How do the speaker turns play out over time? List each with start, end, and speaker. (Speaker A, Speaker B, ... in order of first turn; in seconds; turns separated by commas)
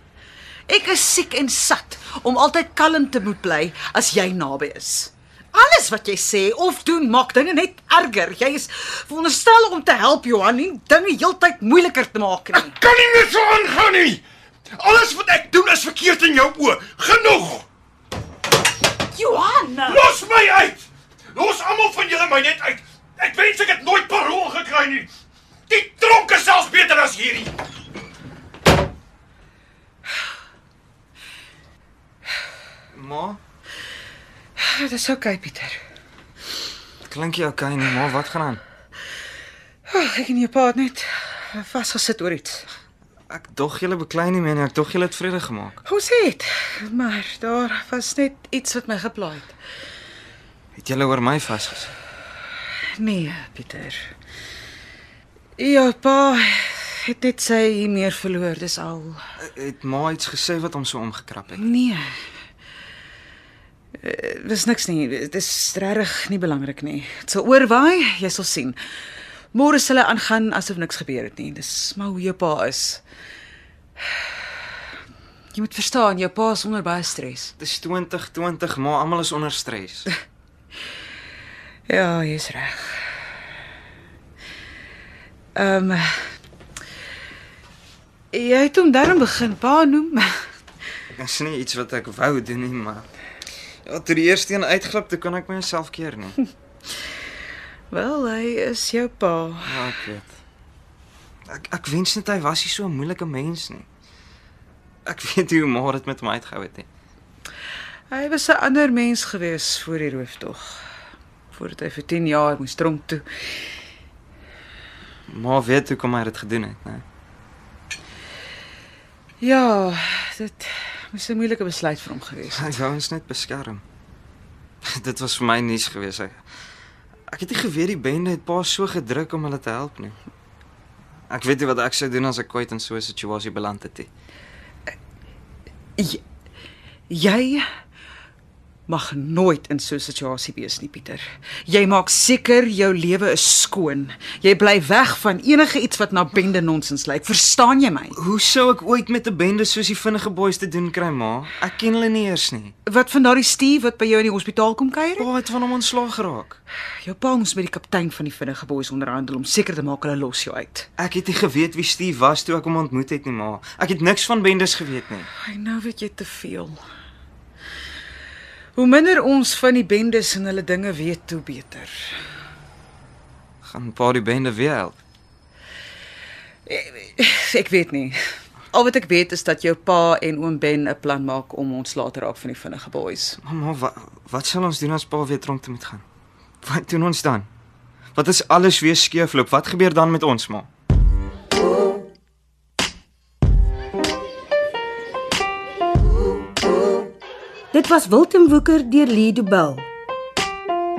Speaker A: 0.7-12.8, Speaker B: 12.5-17.6, Speaker A: 19.1-20.0, Speaker B: 19.8-25.1, Speaker B: 25.7-27.5, Speaker C: 32.9-33.4, Speaker A: 34.6-35.8, Speaker C: 37.1-38.6, Speaker A: 39.9-42.7, Speaker C: 43.3-45.8, Speaker A: 45.8-49.5, Speaker C: 50.8-51.9, Speaker A: 53.0-54.1, Speaker A: 55.6-59.2, Speaker C: 59.4-61.6, Speaker A: 61.5-62.1, Speaker A: 64.0-68.8, Speaker A: 69.5-73.0, Speaker A: 75.5-77.5, Speaker C: 77.6-80.1, Speaker A: 81.9-83.2, Speaker A: 85.5-86.2, Speaker A: 88.3-90.4, Speaker C: 91.2-93.1, Speaker C: 93.8-96.4, Speaker A: 97.9-99.8, Speaker C: 99.6-100.3, Speaker C: 101.5-103.9, Speaker C: 105.0-106.9, Speaker A: 108.1-110.8, Speaker A: 111.5-113.2, Speaker C: 115.3-117.0, Speaker A: 119.4-122.7, Speaker C: 122.5-123.8, Speaker C: 124.8-126.4, Speaker C: 127.3-130.2, Speaker C: 131.3-134.1, Speaker A: 136.0-136.2, Speaker A: 137.1-137.6, Speaker A: 138.9-148.2, Speaker C: 148.1-152.7, Speaker A: 152.8-155.3, Speaker C: 155.2-156.6, Speaker A: 157.0-160.9, Speaker C: 161.0-165.3, Speaker A: 165.3-166.8, Speaker A: 168.7-171.9, Speaker C: 173.6-175.0, Speaker A: 176.7-178.2, Speaker A: 178.7-183.4, Speaker C: 183.4-186.0, Speaker C: 186.6-187.5, Speaker C: 188.1-190.7, Speaker D: 197.7-199.9